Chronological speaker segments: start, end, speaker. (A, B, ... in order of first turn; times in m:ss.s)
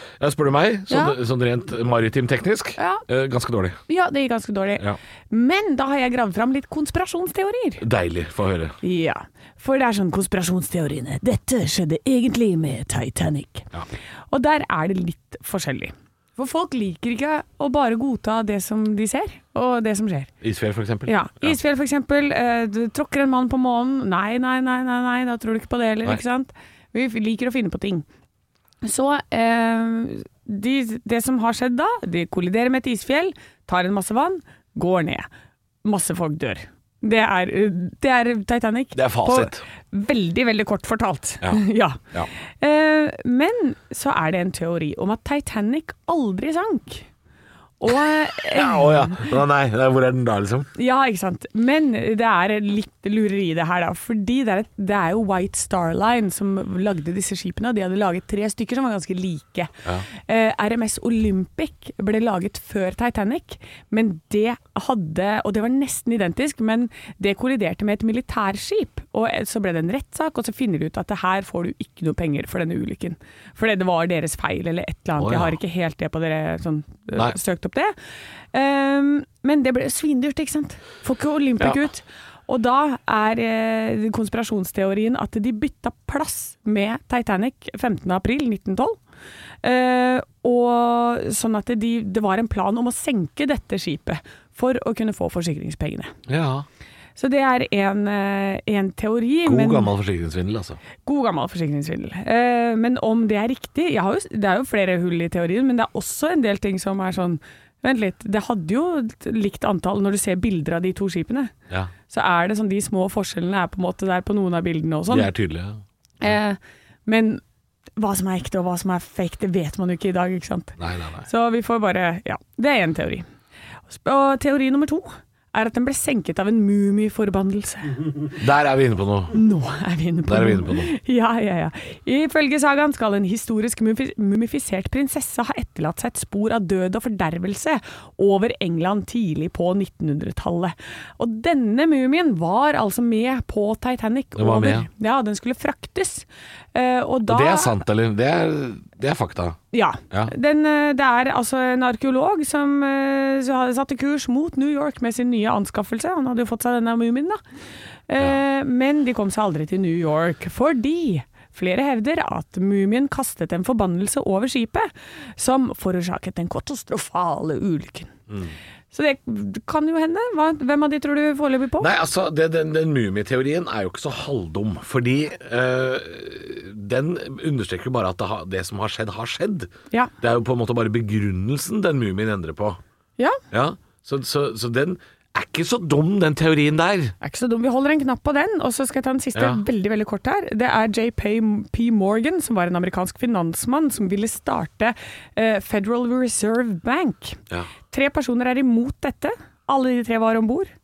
0:00.2-0:03.8 A
0:00.9-0:01.2 B
0:02.8-0:03.0 B
0:03.9-0:07.8 B
0:07.8-0:08.8 A
0:08.8-0:13.7 B
0:14.3-0:20.3 B
0:20.4-0:21.6 A
0:21.1-0:28.1 B
0:28.8-0:35.3 B
0:35.8-0:47.1 B
0:38.9-0:39.6 A
0:47.8-0:49.3 B
0:48.5-0:50.7 A
0:50.8-1:17.9 B
1:15.2-1:15.6 A
1:18.5-1:29.0 B
1:29.6-1:36.1 B
1:36.3-1:36.7 A
1:37.2-1:39.9 B
1:39.4-1:40.8 A
1:41.0-1:51.5 B
1:52.1-1:55.3 B
1:55.1-1:56.3 A
1:56.2-1:57.4 B
1:58.0-2:03.3 B
2:00.8-2:01.3 A
2:03.9-2:08.0 B
2:08.4-2:09.4 A
2:09.3-2:27.8 B
2:10.3-2:10.9 A
2:24.4-2:24.9 A
2:27.3-2:29.6 A
2:29.7-2:37.4 B
2:38.1-2:48.1 B
2:48.3-2:48.6 A
2:48.9-2:51.9 B
2:51.8-3:02.8 A
3:03.5-3:07.2 A
3:07.2-3:17.4 B
3:09.4-3:09.6 A
3:17.9-3:20.7 B